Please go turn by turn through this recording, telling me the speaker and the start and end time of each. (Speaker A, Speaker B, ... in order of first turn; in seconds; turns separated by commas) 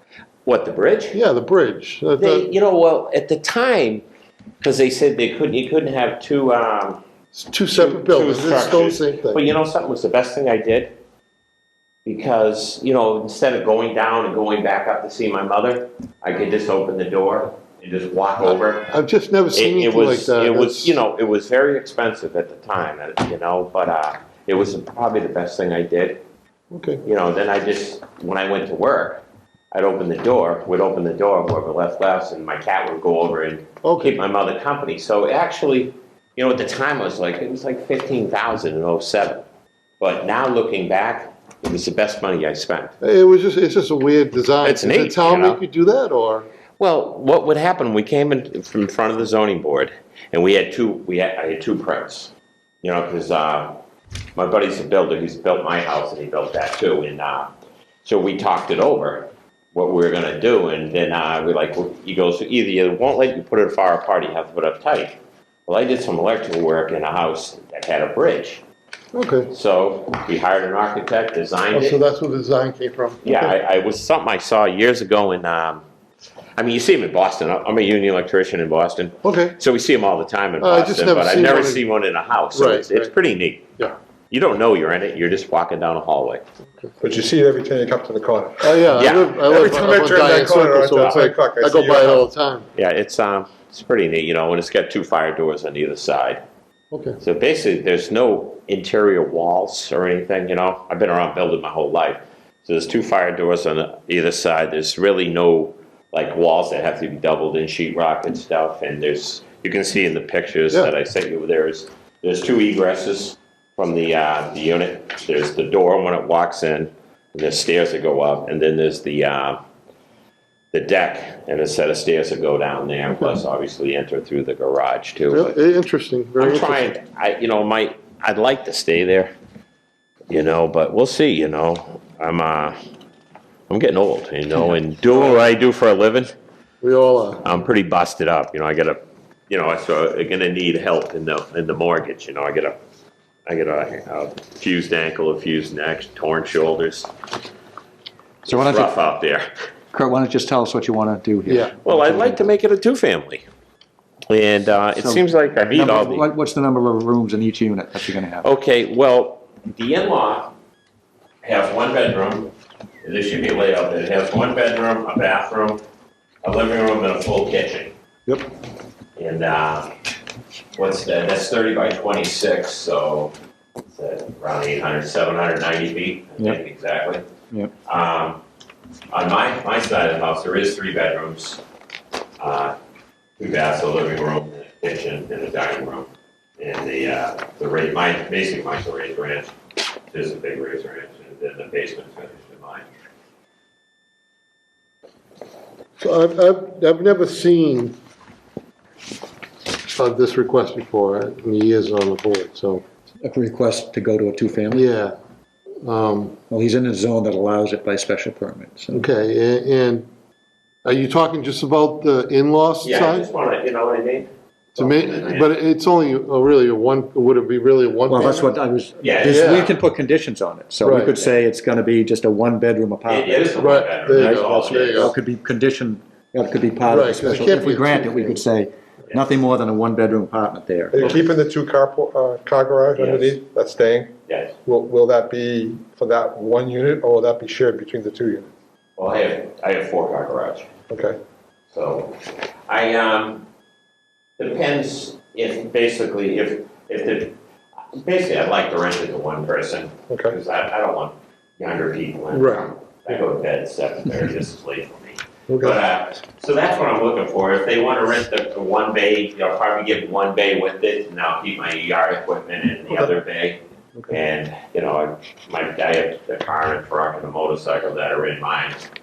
Speaker A: 0.5-1.2, Speaker B: 1.1-2.5, Speaker A: 2.2-4.0, Speaker A: 4.6-7.0, Speaker B: 7.3-9.4, Speaker A: 7.7-10.9, Speaker A: 12.1-18.9, Speaker B: 18.4-20.9, Speaker A: 19.5-26.2, Speaker B: 26.7-27.0, Speaker A: 27.0-39.5, Speaker B: 33.8-34.2, Speaker A: 40.0-42.9, Speaker B: 43.0-46.5, Speaker A: 44.6-45.6, Speaker A: 46.8-52.3, Speaker A: 52.8-53.8, Speaker A: 54.4-57.5, Speaker A: 58.0-68.6, Speaker B: 69.1-69.5, Speaker A: 69.5-72.0, Speaker B: 71.7-73.5, Speaker A: 73.2-75.8, Speaker A: 76.6-83.8, Speaker B: 79.2-79.6, Speaker B: 80.6-81.8, Speaker B: 82.5-83.1, Speaker A: 84.3-86.4, Speaker C: 87.0-92.2, Speaker B: 88.6-92.7, Speaker A: 88.9-89.6, Speaker A: 92.8-96.4, Speaker B: 96.9-97.2, Speaker A: 97.2-119.6, Speaker A: 120.7-125.6, Speaker B: 125.3-126.8, Speaker A: 126.4-129.3, Speaker A: 130.3-132.8, Speaker A: 133.7-136.3, Speaker B: 136.8-137.4, Speaker A: 137.4-142.8, Speaker A: 143.5-147.1, Speaker A: 148.4-149.5, Speaker D: 148.4-148.9, Speaker D: 149.9-152.4, Speaker B: 151.4-151.7, Speaker A: 151.8-153.4, Speaker A: 154.3-156.3, Speaker D: 155.0-158.4, Speaker A: 158.4-160.5, Speaker A: 161.4-162.5, Speaker A: 163.0-165.8, Speaker A: 166.4-167.9, Speaker A: 169.2-169.9, Speaker A: 170.8-173.3, Speaker A: 173.9-177.2, Speaker A: 177.8-178.4, Speaker A: 179.1-181.6, Speaker A: 182.4-182.8, Speaker A: 183.4-186.1, Speaker A: 186.6-189.5, Speaker A: 190.1-192.8, Speaker B: 196.0-198.0, Speaker B: 199.9-202.8, Speaker D: 203.2-204.8, Speaker B: 204.7-205.1, Speaker B: 205.8-206.4, Speaker D: 206.5-209.1, Speaker B: 208.9-210.1, Speaker B: 210.8-213.3, Speaker A: 212.8-215.5, Speaker B: 214.8-218.5, Speaker D: 218.1-231.2, Speaker A: 219.0-219.7, Speaker B: 219.2-219.7, Speaker B: 220.8-221.2, Speaker A: 223.1-225.1, Speaker B: 223.6-225.2, Speaker B: 226.9-228.4, Speaker C: 230.9-234.1, Speaker A: 233.0-233.4, Speaker A: 234.3-234.6, Speaker C: 234.7-238.5, Speaker A: 239.0-240.7, Speaker C: 240.9-241.2, Speaker A: 241.7-242.2, Speaker A: 242.7-243.5, Speaker A: 244.4-247.3, Speaker A: 247.9-268.8, Speaker C: 250.1-250.3, Speaker B: 252.3-252.7